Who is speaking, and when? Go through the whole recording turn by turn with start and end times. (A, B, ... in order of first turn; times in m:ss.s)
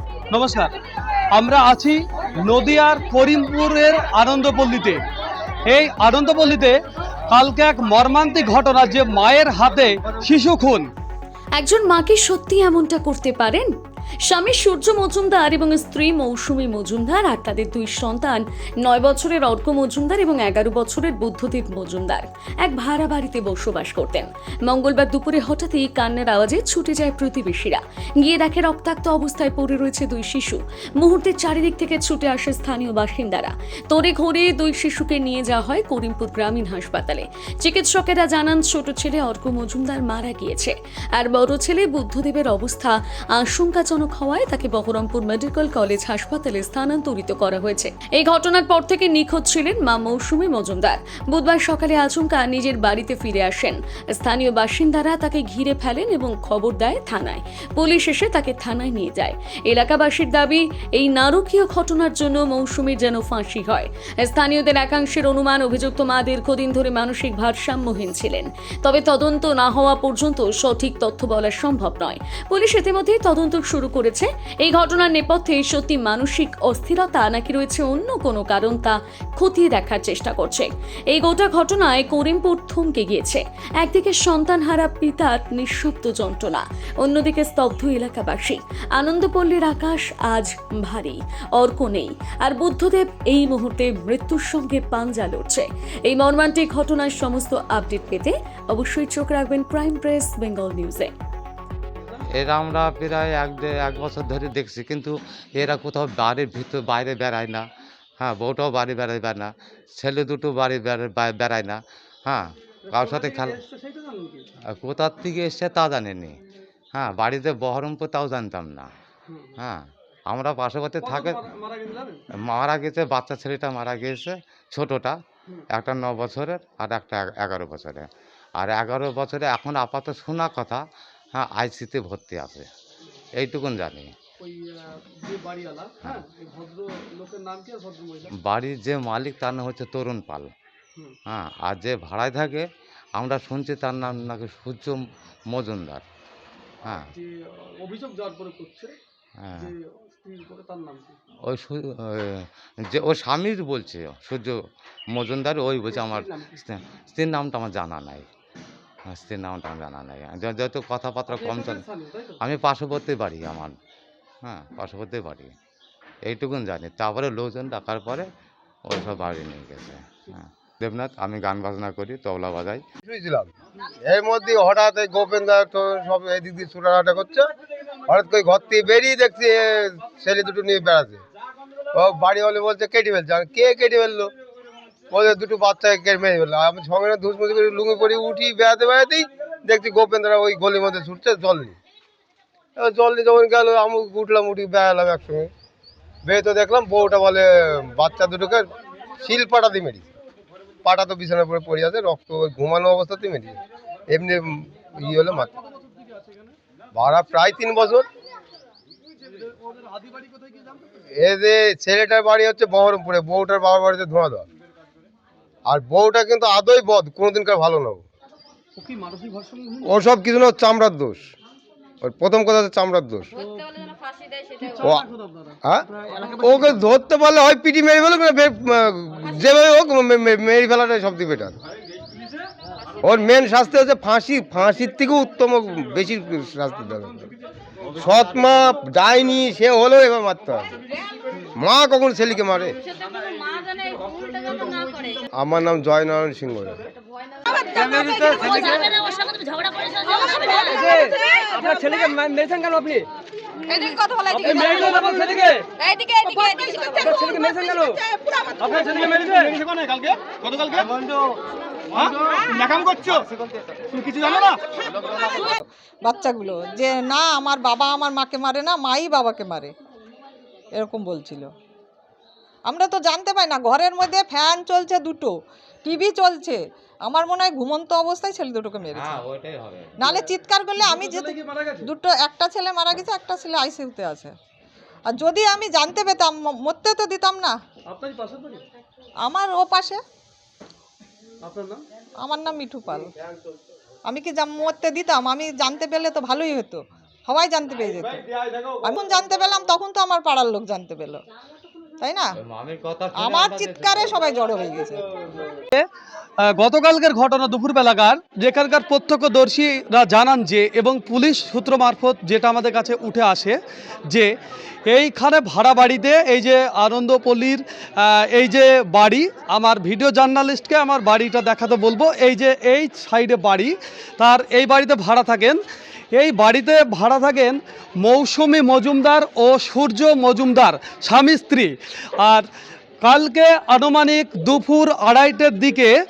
0:00.3-0:00.7 A
0:01.3-0:05.0 A
0:05.7-0:06.8 A
0:07.3-0:10.9 A
0:11.6-0:13.7 B
0:14.2-1:41.1 B
1:42.3-1:47.6 C
1:48.2-1:53.6 C
1:52.8-1:54.4 A
1:54.7-1:56.4 C
1:56.9-1:58.9 C
1:59.3-1:59.6 A
1:59.6-2:01.4 C
2:01.0-2:02.2 A
2:02.4-2:05.2 C
2:05.7-2:10.8 C
2:11.3-2:12.7 C
2:13.4-2:14.1 C
2:14.4-2:18.3 A
2:18.3-2:20.5 C
2:21.3-2:26.0 C
2:26.8-2:27.1 C
2:26.9-2:29.0 A
2:29.4-2:29.7 C
2:29.6-2:31.2 A
2:31.4-2:34.6 C
2:35.1-2:38.3 C
2:35.9-2:36.6 A
2:39.1-2:41.8 C
2:41.3-2:42.4 A
2:42.4-2:43.8 C
2:44.4-2:45.5 C
2:46.2-2:48.3 C
2:48.9-2:52.8 C
2:53.0-2:57.5 D
2:58.1-3:01.2 D
3:01.9-3:04.3 D
3:05.1-3:11.8 D
3:12.8-3:15.5 D
3:16.2-3:18.7 D
3:19.2-3:20.1 D
3:20.8-3:25.5 D
3:26.2-3:26.5 A
3:26.9-3:28.1 D
3:29.5-3:30.8 A
3:31.1-3:34.4 D
3:35.6-3:38.0 D
3:38.8-3:40.0 A
3:39.8-3:41.3 D
3:42.0-3:43.3 D
3:43.4-3:43.9 A
3:44.6-3:46.8 A
3:45.6-3:51.6 D
3:53.0-3:57.3 D
3:57.9-4:00.7 D
4:01.5-4:02.8 D
4:05.3-4:06.8 D
4:08.3-4:08.6 A
4:10.7-4:13.1 E
4:13.7-4:15.0 F
4:14.4-4:15.6 A
4:15.0-4:15.5 E
4:16.1-4:17.2 F
4:17.0-4:18.0 E
4:18.6-4:19.9 A
4:22.0-4:23.2 A
4:24.0-4:24.6 A
4:25.2-4:29.7 F
4:30.8-4:31.5 F
4:32.6-4:39.2 F
4:38.9-4:39.9 C
4:40.0-4:44.3 F
4:40.1-4:41.9 A
4:45.1-4:47.6 F
4:47.9-4:48.6 A
4:49.2-4:50.0 F
4:51.4-4:51.8 A
4:52.2-4:53.1 F
4:54.0-4:58.3 F
4:58.8-5:01.2 F
5:02.0-5:02.4 F
5:02.4-5:04.2 C
5:03.1-5:05.4 F
5:06.4-5:13.6 A
5:14.9-5:25.6 A
5:26.1-5:32.5 A
5:33.0-5:36.0 A